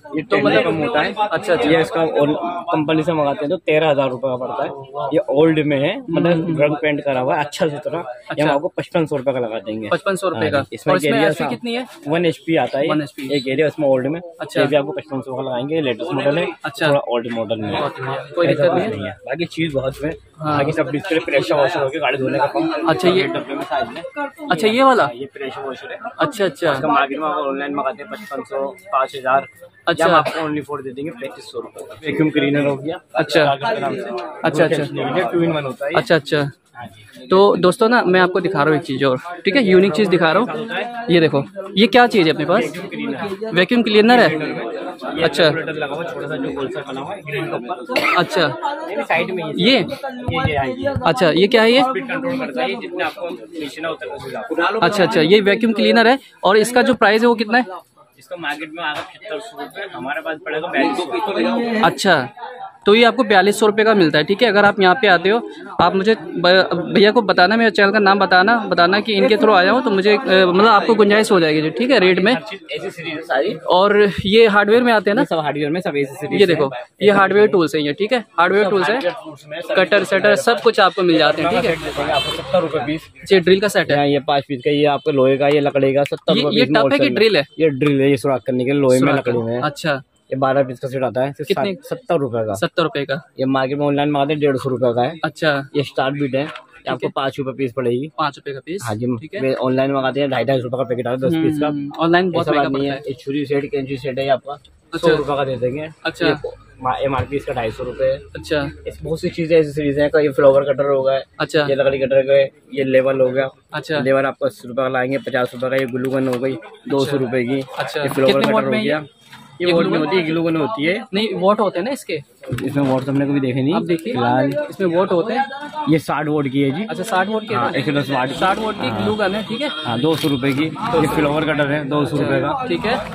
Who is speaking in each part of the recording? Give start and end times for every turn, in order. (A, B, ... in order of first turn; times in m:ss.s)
0:00.1-0:36.1 A
0:00.3-0:01.8 B
0:06.1-0:06.7 B
0:08.3-0:08.6 B
0:09.9-0:11.9 B
0:12.8-0:13.4 B
0:14.4-0:14.7 B
0:16.6-0:17.0 B
0:17.7-0:19.0 B
0:20.4-0:20.8 B
0:22.8-0:23.3 B
0:24.5-0:25.1 B
0:26.2-0:26.9 B
0:29.9-0:30.4 B
0:33.2-0:33.5 B
0:34.4-0:34.9 B
0:35.9-0:36.5 B
0:36.8-0:37.1 A
0:37.2-0:42.7 B
0:39.4-0:40.9 A
0:42.5-0:43.4 A
0:43.3-0:44.4 B
0:44.0-0:48.1 A
0:45.2-0:45.6 B
0:48.1-0:48.6 B
0:48.7-0:51.1 A
0:49.6-0:49.9 B
0:51.0-0:51.9 B
0:51.6-0:54.9 A
0:54.8-0:57.7 B
0:58.2-1:01.8 A
1:01.8-1:02.3 B
1:02.8-1:12.4 B
1:12.0-1:13.6 A
1:13.6-1:15.3 B
1:15.1-1:17.6 A
1:16.3-1:19.1 B
1:18.4-1:23.1 A
1:19.7-1:21.8 B
1:23.2-1:24.0 B
1:23.8-1:29.7 A
1:26.3-1:27.5 B
1:28.9-1:30.0 B
1:30.3-1:32.6 A
1:31.5-1:31.8 B
1:32.5-1:33.2 B
1:33.4-1:35.2 A
1:35.2-1:35.7 B
1:35.7-1:38.1 A
1:38.2-1:39.5 B
1:38.8-1:41.8 A
1:41.2-1:43.0 B
1:42.3-1:48.2 A
1:44.9-1:45.2 B
1:46.0-1:46.4 B
1:48.3-1:48.7 B
1:48.8-1:59.0 A
1:51.4-1:51.7 B
1:53.7-1:54.1 B
1:56.9-1:59.0 B
1:59.6-2:01.1 A
1:59.6-2:00.2 B
2:01.1-2:02.2 B
2:02.5-2:04.6 A
2:03.7-2:05.5 B
2:05.8-2:06.9 A
2:06.9-2:09.8 B
2:07.5-2:09.2 A
2:09.8-2:12.7 A
2:10.9-2:11.3 B
2:12.1-2:13.0 B